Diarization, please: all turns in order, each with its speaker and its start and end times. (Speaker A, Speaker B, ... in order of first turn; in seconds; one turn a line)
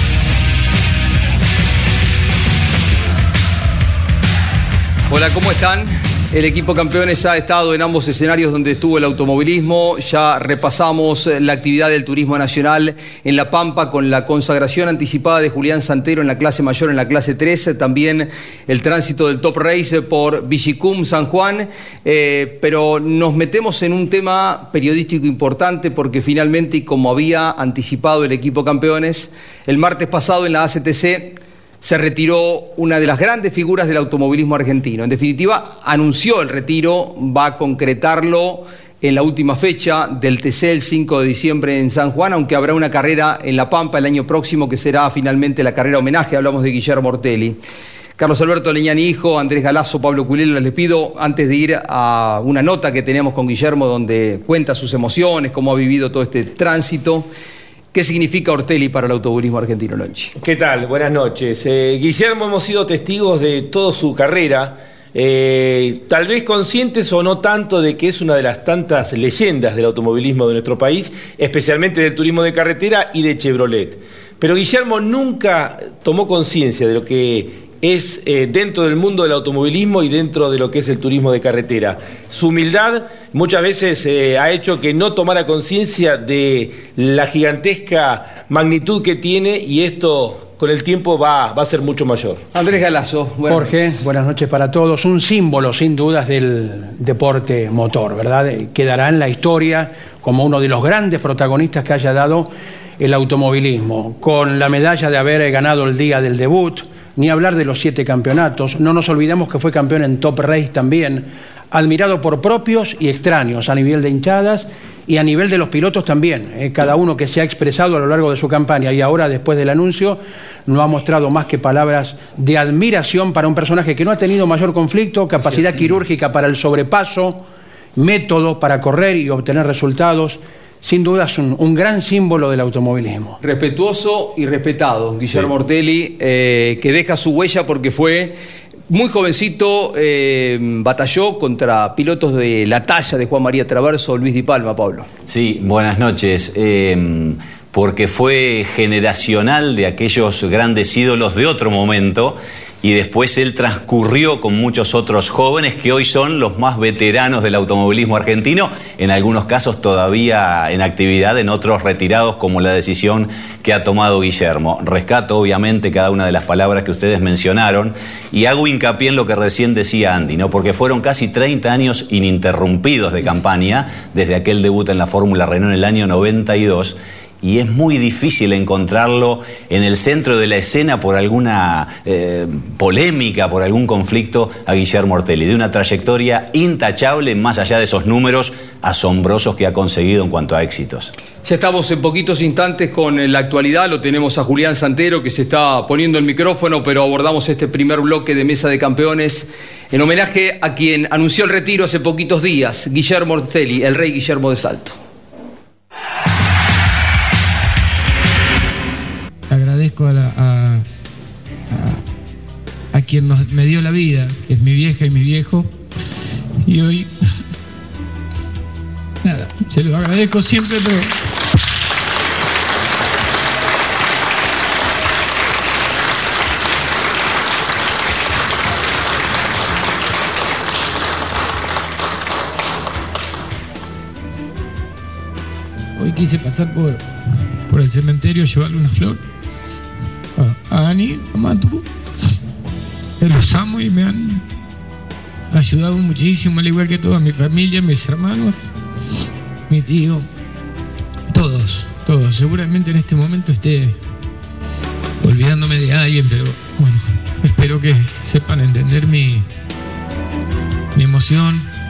Speaker A: 5.1-47.6
Speaker A: 48.2-57.3
Speaker A: 57.9-60.3
Speaker B: 60.4-92.4
Speaker A: 92.5-94.0
Speaker C: 93.5-127.4
Speaker A: 125.4-126.0
Speaker C: 128.0-133.4
Speaker A: 133.4-138.3
Speaker A: 138.9-145.1
Speaker D: 145.3-191.1
Speaker A: 191.4-205.0
Speaker E: 209.5-210.8
Speaker E: 211.7-212.0
Speaker E: 212.9-215.7
Speaker E: 216.6-217.1
Speaker E: 219.2-221.1
Speaker E: 235.9-237.0
Speaker E: 237.7-239.2
Speaker E: 240.3-241.8
Speaker E: 243.2-244.4
Speaker E: 245.5-248.6
Speaker E: 249.7-250.3
Speaker E: 251.3-254.0
Speaker E: 255.2-259.4
Speaker E: 260.9-261.7